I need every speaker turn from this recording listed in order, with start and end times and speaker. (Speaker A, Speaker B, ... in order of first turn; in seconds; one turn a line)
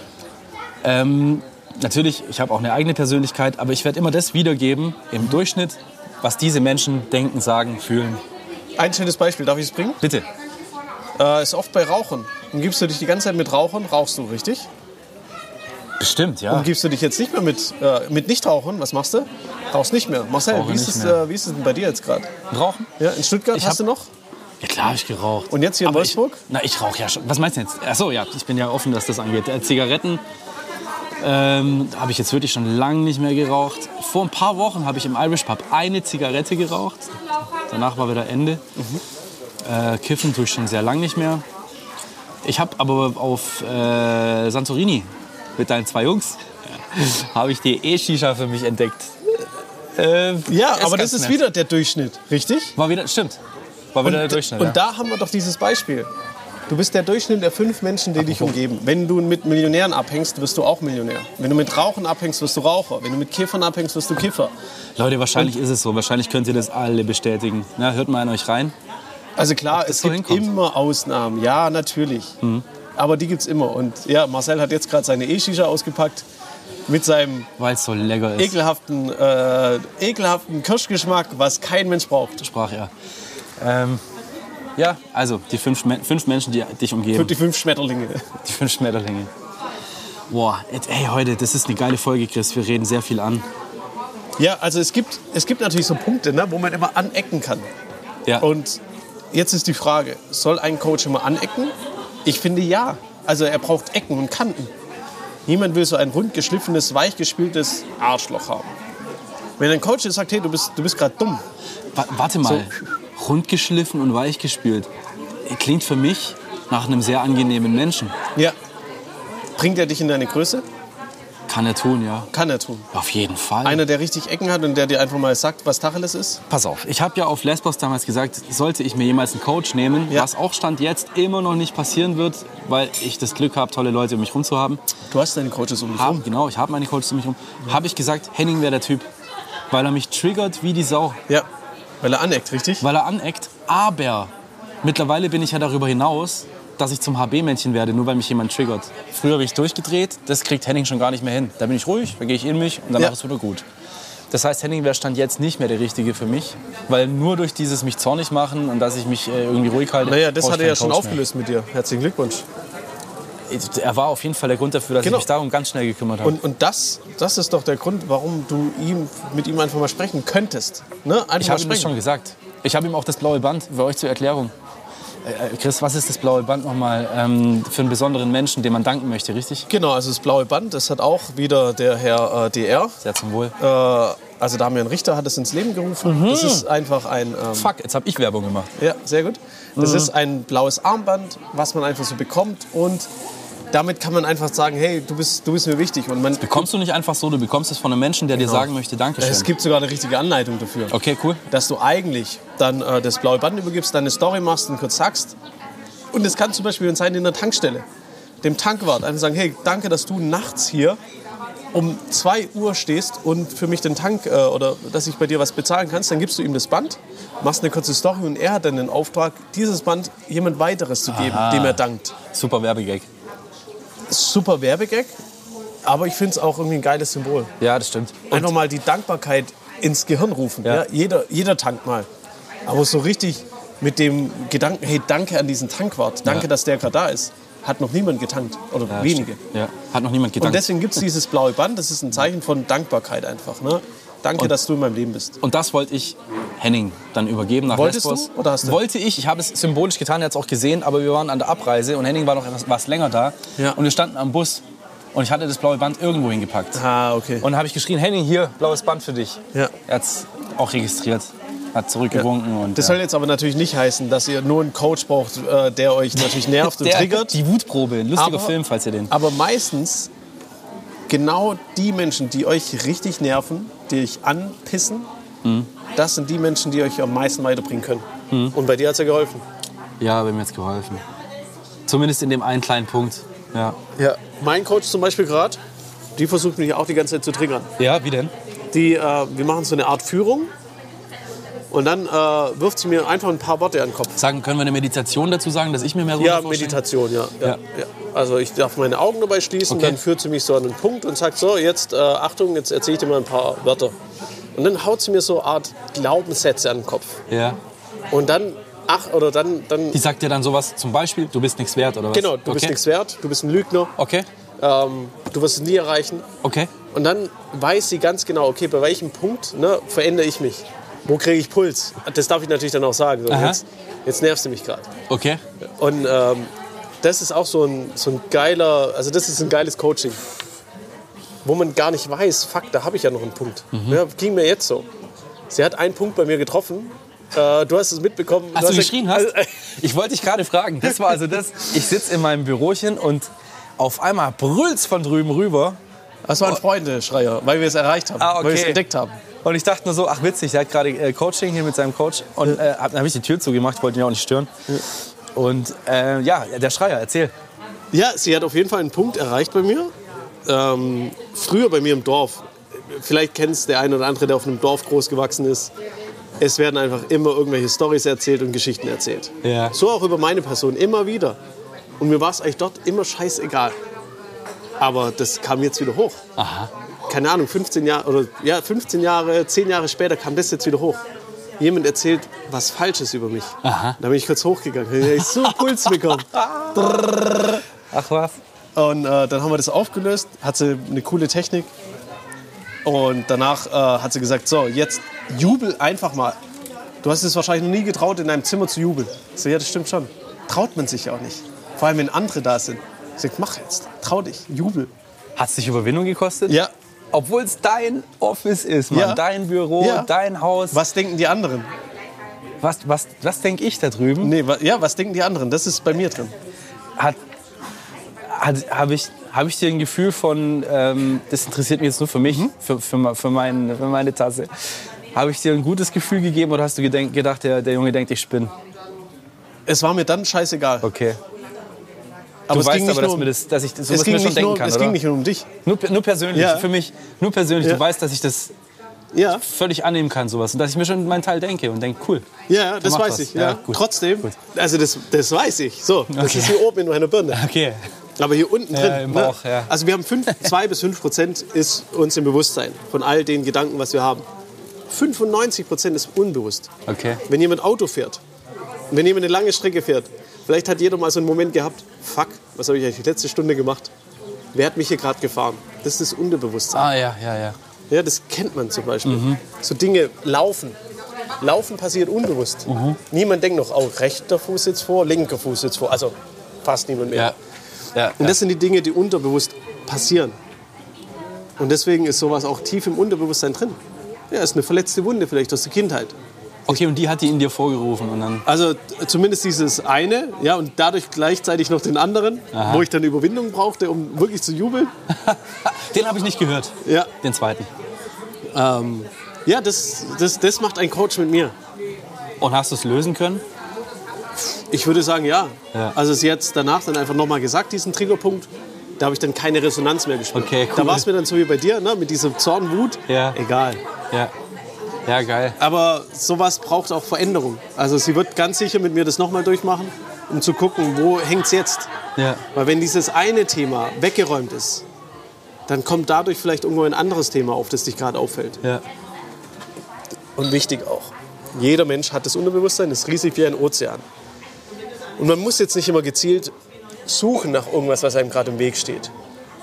Speaker A: 0.8-8.2
Speaker B: 8.8-10.0
Speaker A: 10.0-10.3
Speaker B: 11.2-14.7
Speaker A: 16.0-16.7
Speaker B: 16.5-22.3
Speaker A: 20.5-21.2
Speaker A: 22.5-22.9
Speaker B: 23.0-24.1
Speaker A: 23.5-23.8
Speaker A: 24.6-30.2
Speaker B: 25.5-26.4
Speaker A: 31.2-37.1
Speaker A: 37.7-38.6
Speaker B: 38.8-39.0
Speaker A: 39.6-41.4
Speaker A: 42.4-49.4
Speaker A: 50.0-51.4
Speaker B: 50.5-52.8
Speaker A: 52.8-53.4
Speaker A: 53.9-54.8
Speaker B: 54.0-56.1
Speaker B: 56.7-64.5
Speaker A: 58.2-58.5
Speaker A: 65.0-68.8
Speaker B: 69.4-72.3
Speaker A: 69.7-70.5
Speaker B: 73.0-76.2
Speaker B: 76.9-77.5
Speaker A: 77.6-78.6
Speaker B: 78.4-82.5
Speaker A: 82.4-82.9
Speaker A: 83.6-84.0
Speaker A: 84.8-87.3
Speaker B: 87.1-88.3
Speaker A: 88.4-89.3
Speaker A: 90.3-93.5
Speaker B: 94.4-97.7
Speaker B: 98.4-98.8
Speaker B: 99.3-101.7
Speaker B: 102.2-104.7
Speaker B: 105.5-108.7
Speaker B: 109.6-111.4
Speaker A: 112.0-114.9
Speaker B: 112.4-112.7
Speaker A: 115.5-118.1
Speaker B: 119.6-120.6
Speaker A: 121.5-122.3
Speaker B: 122.3-122.9
Speaker A: 122.9-123.8
Speaker B: 123.6-126.4
Speaker A: 126.5-134.8
Speaker B: 135.1-136.3
Speaker A: 136.0-139.1
Speaker A: 139.7-141.2
Speaker B: 142.0-142.8
Speaker A: 142.8-144.3
Speaker A: 144.8-153.7
Speaker A: 154.3-161.2
Speaker B: 160.1-162.4
Speaker A: 163.5-166.4
Speaker B: 165.0-165.3
Speaker B: 166.2-171.9
Speaker A: 171.4-174.5
Speaker A: 175.2-179.7
Speaker B: 179.7-183.0
Speaker A: 183.0-183.6
Speaker B: 183.6-187.7
Speaker A: 186.0-186.7
Speaker A: 187.5-188.8
Speaker B: 188.8-193.1
Speaker A: 189.8-190.1
Speaker B: 193.7-196.7
Speaker A: 196.4-199.5
Speaker B: 198.4-200.9
Speaker A: 200.9-201.4
Speaker B: 201.5-205.3
Speaker B: 206.1-207.8
Speaker B: 208.4-211.0
Speaker B: 211.7-222.2
Speaker A: 221.1-223.1
Speaker B: 224.1-225.1
Speaker B: 225.8-227.5
Speaker A: 227.6-228.5
Speaker B: 228.3-232.1
Speaker B: 232.7-239.4
Speaker A: 238.9-241.0
Speaker B: 240.4-245.4
Speaker A: 245.4-254.6
Speaker B: 247.7-248.8
Speaker A: 255.1-256.8
Speaker B: 256.8-257.5
Speaker A: 257.4-263.0
Speaker B: 262.1-267.4
Speaker A: 266.2-269.1
Speaker B: 268.1-268.6
Speaker B: 269.1-270.1
Speaker B: 271.1-275.1
Speaker A: 275.4-275.7
Speaker B: 275.9-279.4
Speaker A: 280.0-281.0
Speaker A: 281.9-283.8
Speaker B: 284.0-285.6
Speaker B: 286.2-287.7
Speaker A: 287.8-288.3
Speaker B: 288.7-290.5
Speaker B: 291.7-294.2
Speaker A: 294.2-296.8
Speaker B: 296.2-303.9
Speaker A: 299.7-300.0
Speaker B: 304.6-307.2
Speaker A: 307.3-307.6
Speaker B: 308.1-310.0
Speaker A: 309.9-312.8
Speaker B: 312.1-313.9
Speaker A: 314.0-314.3
Speaker B: 314.6-316.3
Speaker A: 316.4-316.7
Speaker B: 316.9-324.9
Speaker A: 323.3-323.6
Speaker A: 325.1-325.4
Speaker B: 325.6-326.5
Speaker B: 327.0-330.2
Speaker B: 331.4-334.9
Speaker A: 333.7-334.0
Speaker B: 335.5-339.5
Speaker A: 338.5-345.8
Speaker B: 346.3-349.1
Speaker A: 348.2-348.8
Speaker A: 349.4-354.5
Speaker A: 355.4-357.3
Speaker B: 357.9-359.9
Speaker B: 360.4-365.7
Speaker B: 366.4-371.4
Speaker A: 369.4-369.8
Speaker B: 372.0-373.8
Speaker B: 374.8-376.2
Speaker A: 376.4-376.7
Speaker B: 377.1-381.0
Speaker B: 381.6-387.6
Speaker A: 383.6-384.0
Speaker A: 385.2-388.4
Speaker B: 388.8-391.7
Speaker B: 392.9-396.4
Speaker B: 397.0-404.9
Speaker A: 405.4-406.6
Speaker A: 407.1-410.8
Speaker B: 408.9-409.2
Speaker B: 409.8-410.1
Speaker B: 410.7-411.7
Speaker A: 412.6-414.4
Speaker B: 414.2-416.3
Speaker A: 418.3-424.5
Speaker A: 425.1-428.5
Speaker B: 429.7-430.9
Speaker A: 430.8-431.2
Speaker B: 432.5-433.3
Speaker A: 432.5-435.0
Speaker B: 433.9-435.5
Speaker A: 435.6-438.5
Speaker B: 436.3-436.7
Speaker B: 439.1-439.4
Speaker A: 439.4-442.3
Speaker B: 442.5-447.4
Speaker A: 442.8-444.4
Speaker A: 446.1-446.7
Speaker A: 447.3-447.8
Speaker B: 448.2-454.2
Speaker A: 448.7-449.7
Speaker B: 454.9-456.7
Speaker A: 456.9-457.2
Speaker B: 457.3-458.2
Speaker B: 458.9-463.9
Speaker B: 464.5-466.9
Speaker A: 466.7-467.6
Speaker B: 467.9-470.8
Speaker A: 469.1-469.4
Speaker B: 471.4-477.3
Speaker A: 472.7-473.0
Speaker A: 477.9-478.4
Speaker B: 478.2-480.4
Speaker B: 481.6-483.8
Speaker B: 484.3-486.1
Speaker A: 486.7-488.5
Speaker B: 488.5-494.9
Speaker A: 492.5-492.9
Speaker A: 495.1-497.7
Speaker B: 496.9-497.1
Speaker B: 498.5-501.5
Speaker A: 502.4-503.4
Speaker B: 504.4-513.8
Speaker A: 510.3-511.1
Speaker A: 513.1-513.4
Speaker A: 515.1-515.6
Speaker B: 515.6-521.9
Speaker A: 522.2-522.4
Speaker B: 522.5-524.9
Speaker B: 525.7-528.6
Speaker B: 530.4-534.0
Speaker B: 535.2-536.5
Speaker B: 537.1-539.1